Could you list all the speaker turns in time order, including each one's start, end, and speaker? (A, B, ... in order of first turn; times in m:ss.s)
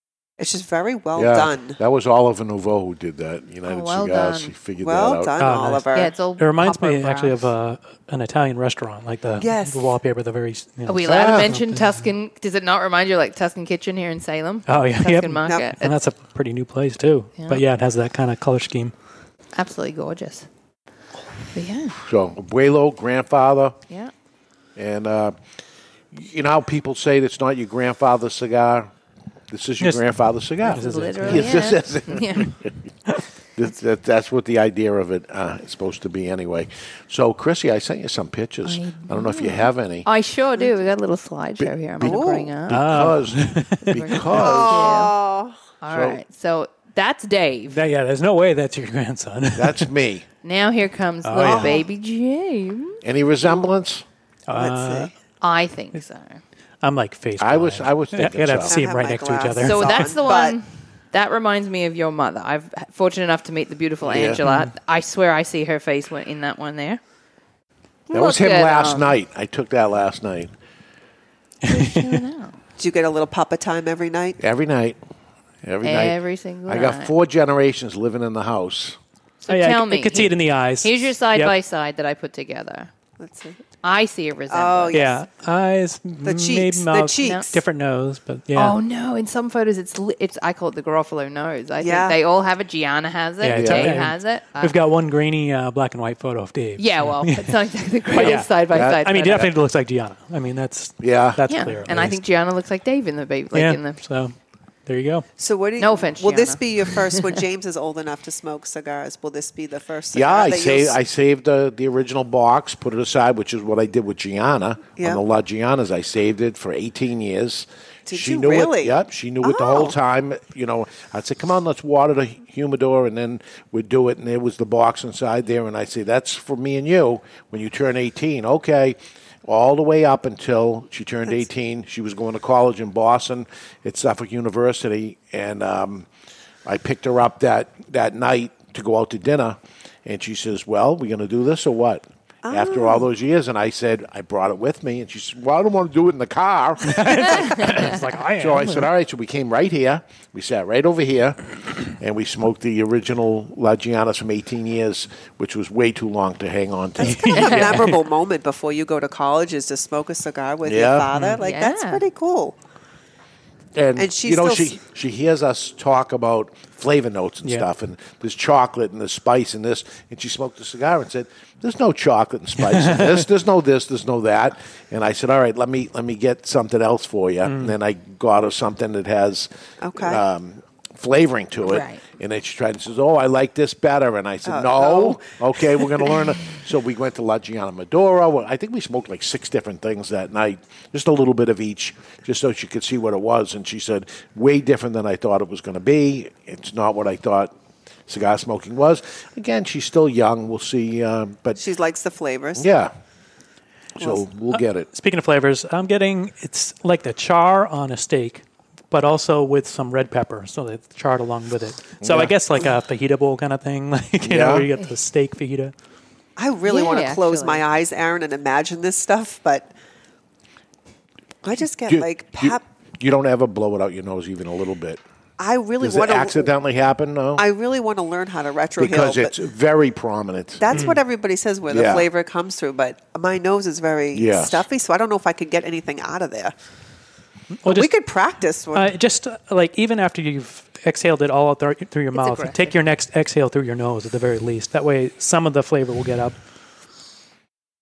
0:00.4-0:01.8 A
0:01.1-0:05.3 B
0:03.7-0:04.5 C
0:04.8-0:06.1 A
0:05.4-0:12.0 D
0:05.9-0:07.5 C
0:09.4-0:09.9 A
0:10.8-0:15.9 C
0:11.0-0:11.5 B
0:14.7-0:18.9 D
0:17.4-0:17.6 C
0:19.5-0:20.5 C
0:21.5-0:21.9 C
0:22.0-0:23.8 B
0:24.8-0:25.4 B
0:26.1-0:28.9 B
0:29.5-0:32.7 B
0:30.6-0:31.7 D
0:30.7-0:32.5 C
0:33.6-0:40.1 B
0:38.6-0:42.9 C
0:41.6-0:45.0 B
0:42.0-0:42.5 A
0:42.7-0:44.2 D
0:43.8-0:45.1 C
0:44.3-0:45.6 A
0:45.8-0:47.8 C
0:45.9-0:46.2 B
0:47.7-0:49.9 D
0:49.5-0:50.2 B
0:50.4-0:53.0 C
0:51.2-0:51.8 D
0:51.4-0:51.8 A
0:53.0-0:54.0 B
0:54.5-0:55.1 D
0:54.6-0:55.1 A
0:55.4-0:56.4 C
0:56.8-1:00.1 D
0:57.4-0:58.8 B
0:58.6-1:00.6 A
0:59.6-1:07.0 C
1:04.0-1:04.4 B
1:04.4-1:04.7 D
1:08.1-1:09.1 C
1:08.1-1:10.5 B
1:11.6-1:12.2 D
1:11.7-1:12.6 C
1:12.8-1:14.4 A
1:14.4-1:15.0 B
1:15.6-1:19.0 B
1:15.8-1:17.1 C
1:19.4-1:22.9 C
1:19.5-1:21.5 D
1:23.2-1:23.6 A
1:23.8-1:25.0 C
1:24.5-1:25.2 A
1:24.9-1:28.8 D
1:26.2-1:27.6 A
1:27.2-1:27.5 C
1:28.5-1:34.8 C
1:31.8-1:32.2 A
1:33.4-1:42.2 D
1:33.5-1:34.0 B
1:36.8-1:39.5 C
1:38.7-1:39.5 B
1:41.0-1:41.4 B
1:41.5-1:44.0 C
1:43.5-1:44.3 D
1:44.8-1:45.2 D
1:45.4-1:51.0 A
1:45.8-1:47.2 C
1:50.1-2:16.1 B
1:58.1-1:59.9 A
2:16.6-2:37.7 B
2:22.4-2:23.1 A
2:26.9-2:28.9 D
2:37.0-2:42.6 A
2:37.0-2:38.0 D
2:40.6-2:41.1 B
2:41.1-2:41.4 D
2:41.4-2:42.0 C
2:43.7-3:17.5 B
2:44.0-2:44.8 A
2:52.6-2:53.2 D
2:57.4-2:57.7 D
2:59.8-3:00.2 A
3:01.6-3:02.0 C
3:04.4-3:06.2 A
3:18.1-3:21.6 B
3:21.6-3:22.7 A
3:22.6-3:22.9 B
3:24.0-3:24.9 B
3:24.5-3:35.7 D
3:32.0-3:32.4 B
3:34.2-3:34.7 B
3:36.4-3:39.7 A
3:36.6-3:37.6 C
3:41.4-3:42.6 A
3:41.9-3:45.0 B
3:45.4-3:46.5 A
3:45.8-3:47.4 B
3:47.4-3:49.3 A
3:48.8-3:50.8 B
3:50.6-3:56.5 A
3:50.7-3:51.0 D
3:51.7-3:52.1 B
3:54.1-3:54.6 B
3:57.6-3:57.9 D
3:57.6-3:58.9 A
3:58.7-4:06.4 D
4:02.1-4:02.8 C